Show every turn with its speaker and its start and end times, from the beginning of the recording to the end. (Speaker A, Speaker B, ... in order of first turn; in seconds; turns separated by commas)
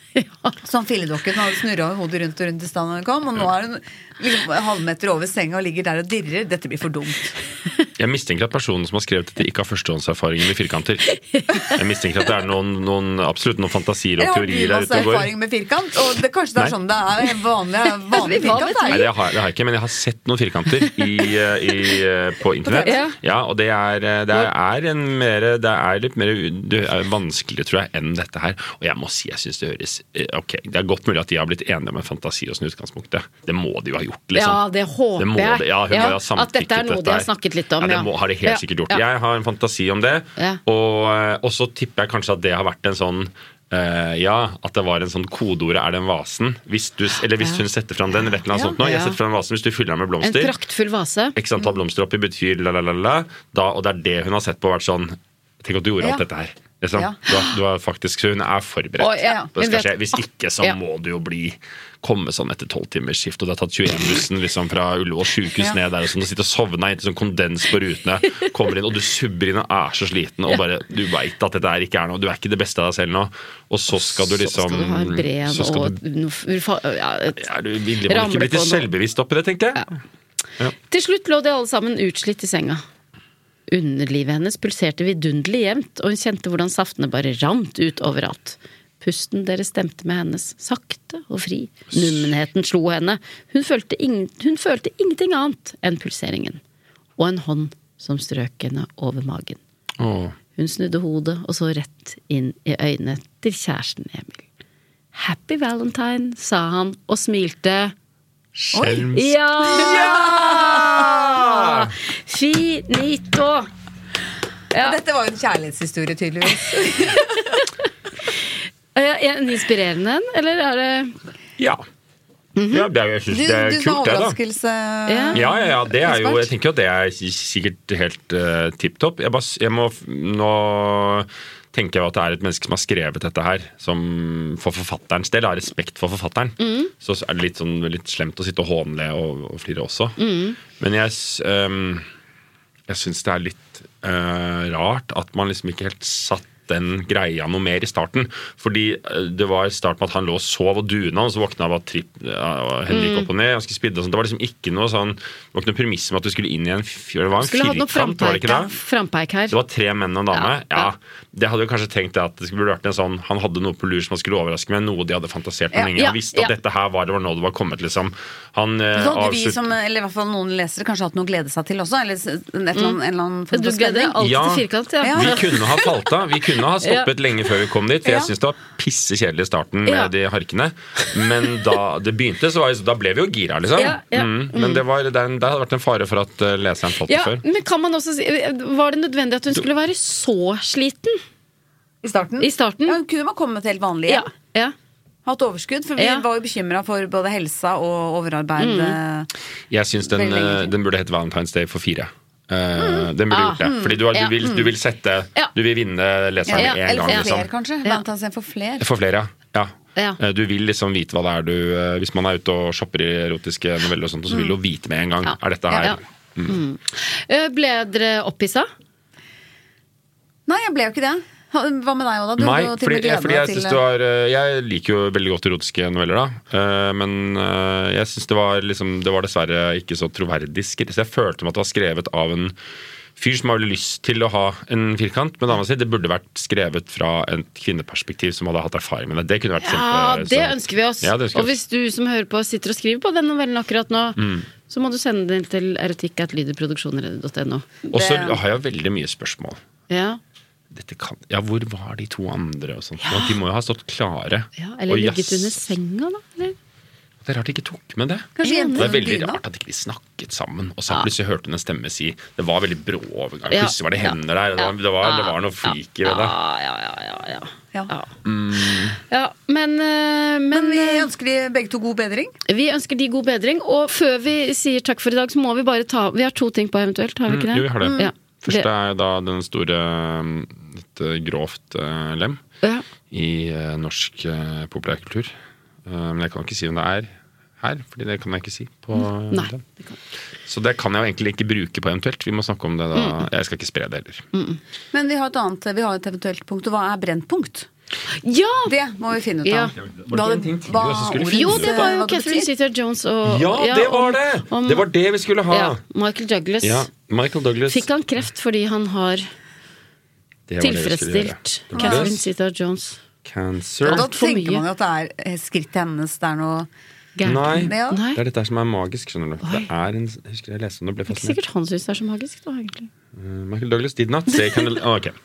Speaker A: 0.2-0.5, Speaker B: 0.6-7.4, Speaker C: 8.0-11.1, Speaker A: 11.3-11.7, Speaker C: 11.7-15.3, Speaker B: 14.2-19.1, Speaker A: 18.1-19.1, Speaker C: 18.9-34.6, Speaker B: 22.6-23.0, Speaker A: 22.8-23.2, Speaker A: 34.3-39.0, Speaker C: 35.2-37.3, Speaker C: 37.8-50.5, Speaker A: 48.7-49.2, Speaker A: 50.2-51.4, Speaker C: 51.3-76.0, Speaker A: 59.0-60.8, Speaker A: 73.9-77.4, Speaker C: 77.4-79.8, Speaker A: 78.1-78.9, Speaker A: 80.9-82.8, Speaker A: 83.7-96.6, Speaker C: 91.9-92.3, Speaker A: 97.2-99.6, Speaker C: 100.0-100.4, Speaker A: 100.5-104.4, Speaker A: 105.1-107.9, Speaker C: 108.5-111.9, Speaker B: 108.7-109.1, Speaker A: 109.1-113.7, Speaker B: 109.7-111.1, Speaker A: 114.7-115.0, Speaker B: 114.8-117.4, Speaker A: 116.9-117.7, Speaker A: 119.0-121.2, Speaker C: 121.6-121.8, Speaker A: 122.5-122.9, Speaker C: 122.7-124.4, Speaker B: 123.3-126.4, Speaker A: 125.1-125.4, Speaker C: 125.3-140.2, Speaker A: 136.6-136.9, Speaker A: 140.2-140.6, Speaker C: 140.7-142.1, Speaker C: 142.9-158.7, Speaker A: 152.9-153.3, Speaker A: 157.4-159.6, Speaker C: 159.5-169.7, Speaker A: 160.3-160.9, Speaker A: 165.9-166.5, Speaker B: 168.9-174.2, Speaker A: 173.5-175.9, Speaker C: 174.2-187.4, Speaker B: 175.0-175.4, Speaker A: 176.8-177.1, Speaker B: 178.1-178.3, Speaker A: 179.9-180.1, Speaker A: 181.0-181.5, Speaker A: 183.8-184.8, Speaker A: 187.1-191.2, Speaker B: 192.0-194.3, Speaker A: 192.4-193.0, Speaker A: 194.1-194.7, Speaker B: 195.2-199.3, Speaker A: 196.0-196.2, Speaker A: 198.6-199.0, Speaker C: 199.7-207.5, Speaker B: 200.1-200.7, Speaker B: 202.8-203.1, Speaker A: 203.3-204.6, Speaker B: 206.5-208.9, Speaker A: 206.5-207.3, Speaker C: 208.8-216.6, Speaker A: 215.2-215.9, Speaker A: 216.5-218.7, Speaker B: 220.5-223.8, Speaker C: 222.4-232.6, Speaker C: 233.2-241.5, Speaker A: 239.6-247.7, Speaker C: 244.2-244.4, Speaker C: 247.9-249.6, Speaker B: 247.9-248.4, Speaker A: 249.9-250.2, Speaker C: 250.7-255.7, Speaker A: 253.0-253.4, Speaker A: 254.6-256.6, Speaker C: 257.2-266.4, Speaker B: 258.4-259.4, Speaker A: 258.4-258.9, Speaker A: 263.5-271.1, Speaker C: 268.2-268.9, Speaker B: 270.5-272.3, Speaker A: 272.5-278.7, Speaker C: 277.3-282.4, Speaker B: 277.8-278.1, Speaker C: 283.1-285.3, Speaker C: 285.9-289.6, Speaker A: 289.0-289.9, Speaker C: 290.5-294.3, Speaker A: 292.9-293.2, Speaker A: 294.3-294.6, Speaker B: 294.9-297.7, Speaker A: 298.2-298.7, Speaker B: 298.7-302.5, Speaker A: 299.4-299.7, Speaker C: 299.8-301.9, Speaker A: 301.3-304.9, Speaker C: 303.3-305.8, Speaker A: 305.5-306.9, Speaker C: 306.6-307.9, Speaker A: 307.7-309.3, Speaker C: 310.5-312.2, Speaker A: 310.6-313.0, Speaker B: 311.7-312.1, Speaker C: 313.2-314.1, Speaker A: 313.9-314.6, Speaker B: 313.9-316.7, Speaker A: 317.2-318.2, Speaker C: 317.2-321.4, Speaker B: 317.5-318.0, Speaker A: 319.4-319.7, Speaker A: 321.1-322.9, Speaker C: 323.1-325.1